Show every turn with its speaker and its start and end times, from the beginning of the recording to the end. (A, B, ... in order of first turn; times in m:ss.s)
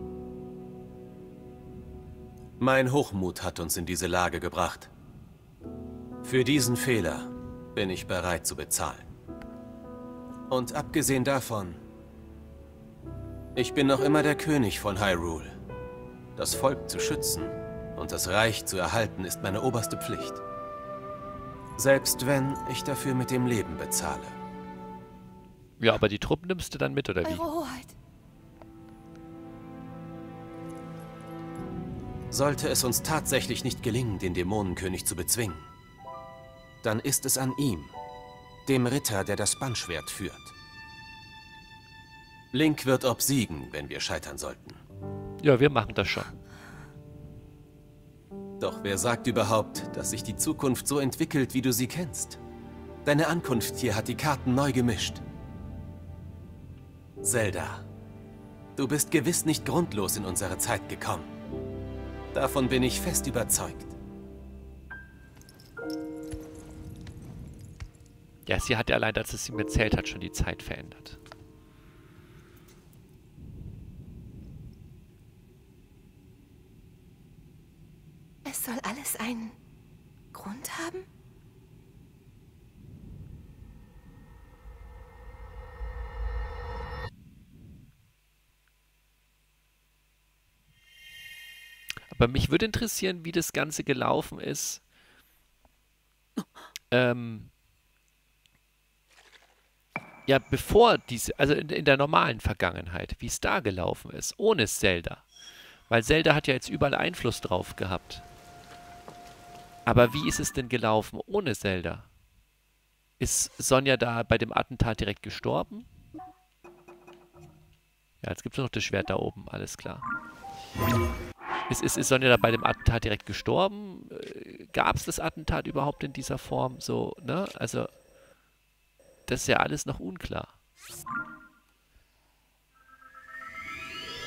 0:02.6-0:04.9 A
0:06.2-0:09.1 A
0:10.5-0:11.8 A
0:13.6-0:15.6 A
0:16.4-0:20.4 A
0:21.8-0:24.4 A
0:25.8-0:27.4 B
0:27.2-0:28.0 C
0:32.3-0:35.7 A
0:36.8-0:37.9 A
0:38.7-0:40.5 A
0:42.5-0:44.8 A
0:45.4-0:46.3 B
0:48.6-0:52.4 A
0:53.0-0:55.2 A
0:57.2-0:57.8 A
0:58.8-1:01.3 A
1:02.3-1:04.0 A
1:08.4-1:11.2 B
1:18.4-1:19.6 C
1:20.3-1:21.0 C
1:32.1-1:34.8 B
1:36.9-1:37.5 B
1:40.3-1:45.2 B
1:45.9-1:48.2 B
1:49.9-1:52.1 B
1:53.2-1:55.9 B
1:58.2-2:00.1 B
2:01.7-2:07.9 B
2:09.3-2:10.5 B